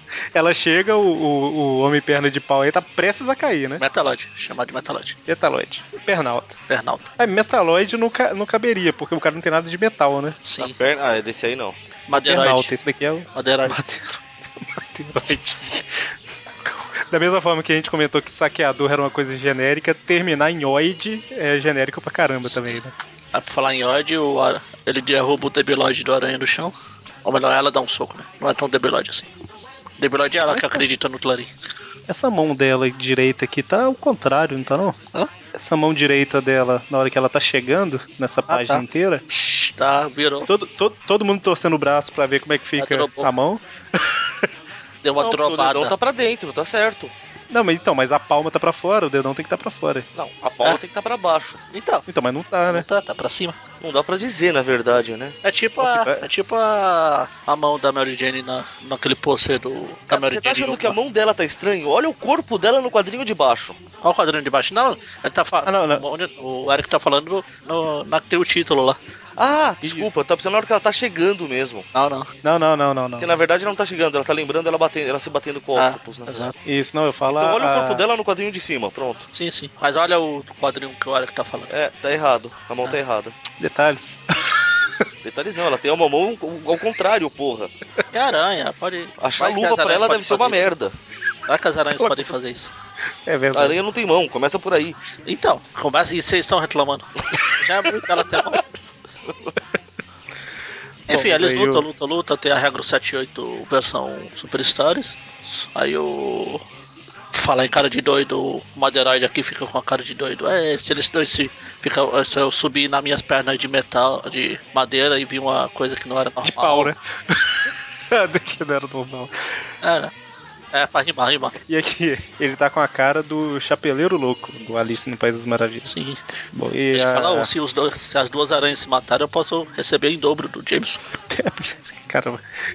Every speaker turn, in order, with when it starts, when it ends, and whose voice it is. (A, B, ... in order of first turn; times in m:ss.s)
0:00.3-0:03.8 A
0:03.8-0:05.2 B
0:05.3-0:06.6 A
0:06.7-0:07.1 B
0:07.2-0:10.4 A
0:10.4-0:10.8 B
0:10.6-0:11.8 C
0:12.1-0:12.7 B
0:12.2-0:22.9 A
0:13.3-0:13.8 B
0:22.4-0:22.8 B
0:23.3-0:29.3 B
0:30.0-0:31.5 B
0:30.5-0:30.9 A
0:32.1-0:35.0 A
0:35.5-0:39.2 A
0:38.5-0:40.5 B
0:40.5-0:44.5 A
0:42.8-0:43.3 B
0:45.0-0:45.9 B
0:45.2-0:47.1 C
0:47.5-0:50.1 A
0:50.1-0:51.6 C
0:51.7-0:52.0 B
0:52.1-0:52.8 A
0:52.7-0:53.6 B
0:53.8-0:55.4 C
0:55.4-1:01.0 B
0:55.8-0:56.3 A
1:00.1-1:03.8 C
1:04.0-1:09.0 B
1:05.6-1:06.0 A
1:09.4-1:11.8 C
1:09.8-1:10.1 A
1:11.9-1:12.3 B
1:12.4-1:13.4 A
1:13.2-1:16.3 C
1:15.8-1:16.5 B
1:16.6-1:18.0 A
1:17.3-1:19.2 C
1:19.3-1:21.7 B
1:21.7-1:23.4 C
1:23.6-1:25.0 A
1:25.2-1:27.7 C
1:28.1-1:30.7 B
1:29.2-1:31.0 C
1:31.5-1:32.7 B
1:32.0-1:32.3 A
1:33.2-1:33.8 A
1:33.5-1:35.0 C
1:35.2-1:38.6 B
1:41.1-1:41.8 A
1:41.1-1:46.6 B
1:47.3-1:56.9 B
1:56.4-1:59.6 A
1:59.8-2:00.1 B
2:00.7-2:01.6 B
2:01.7-2:05.9 A
2:05.8-2:06.2 B
2:06.5-2:07.5 A
2:06.9-2:11.0 B
2:11.3-2:12.4 A